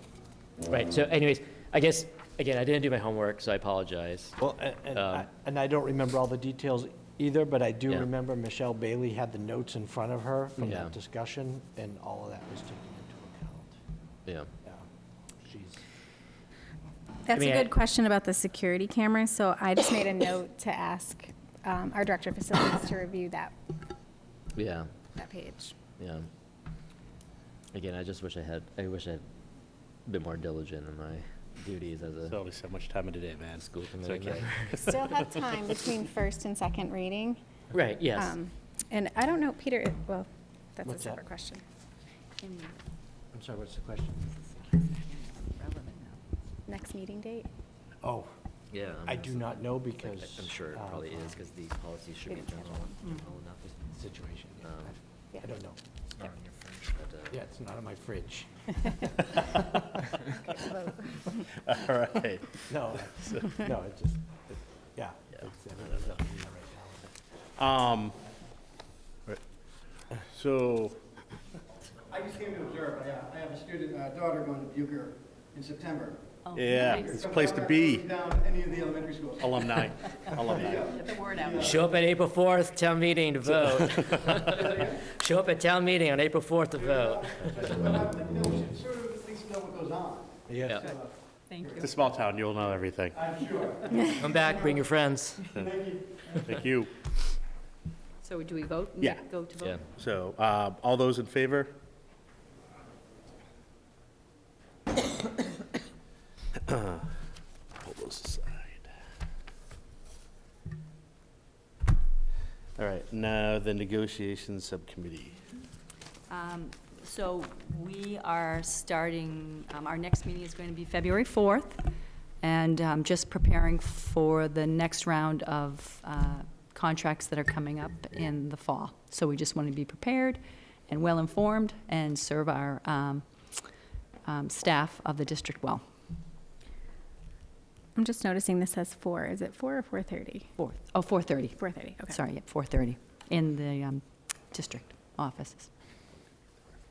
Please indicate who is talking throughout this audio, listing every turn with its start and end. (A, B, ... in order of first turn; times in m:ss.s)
0:00.7-0:04.4 A
0:04.4-0:13.7 B
0:04.9-0:05.3 A
0:10.6-0:10.9 A
0:15.4-0:15.8 B
0:17.3-0:23.5 C
0:17.3-0:17.7 A
0:24.5-0:24.9 A
0:25.2-0:25.7 C
0:26.0-0:26.3 A
0:27.7-0:29.2 A
0:30.0-0:32.4 A
0:32.3-0:35.4 D
0:33.6-0:34.8 A
0:34.8-0:37.4 C
0:37.7-0:38.4 A
0:38.1-0:41.6 C
0:40.8-0:41.2 B
0:42.4-0:42.8 E
0:43.3-0:44.3 B
0:44.5-0:46.2 E
0:46.7-0:47.5 C
0:48.0-0:48.3 B
0:48.7-0:53.8 A
0:49.0-0:51.4 B
0:52.3-0:53.0 C
0:53.9-0:55.8 B
0:54.6-0:54.9 A
0:56.2-0:57.4 A
0:57.3-1:00.0 B
1:01.5-1:03.6 D
1:02.7-1:07.1 B
1:07.6-1:08.2 D
1:10.2-1:11.0 D
1:12.1-1:16.2 F
1:16.5-1:18.2 D
1:16.6-1:17.0 E
1:17.2-1:17.4 F
1:18.0-1:19.4 F
1:19.4-1:21.1 D
1:20.9-1:21.6 F
1:21.1-1:21.5 E
1:21.5-1:28.0 A
1:24.1-1:24.4 D
1:27.2-1:30.2 F
1:30.5-1:30.8 B
1:30.6-1:30.9 A
1:31.5-1:31.8 E
1:31.8-1:33.4 D
1:33.4-1:34.0 F
1:34.0-1:35.5 A
1:36.4-1:36.9 D
1:38.2-1:39.8 E
1:39.0-1:39.3 D
1:39.6-1:39.8 A
1:39.8-1:41.8 D
1:46.6-1:47.1 D
1:47.8-1:48.9 D
1:52.8-1:55.4 D
1:56.3-2:01.9 E
2:02.4-2:13.2 E
2:14.2-2:15.8 E
2:18.0-2:20.5 C
2:20.6-2:25.7 E
2:21.6-2:22.2 C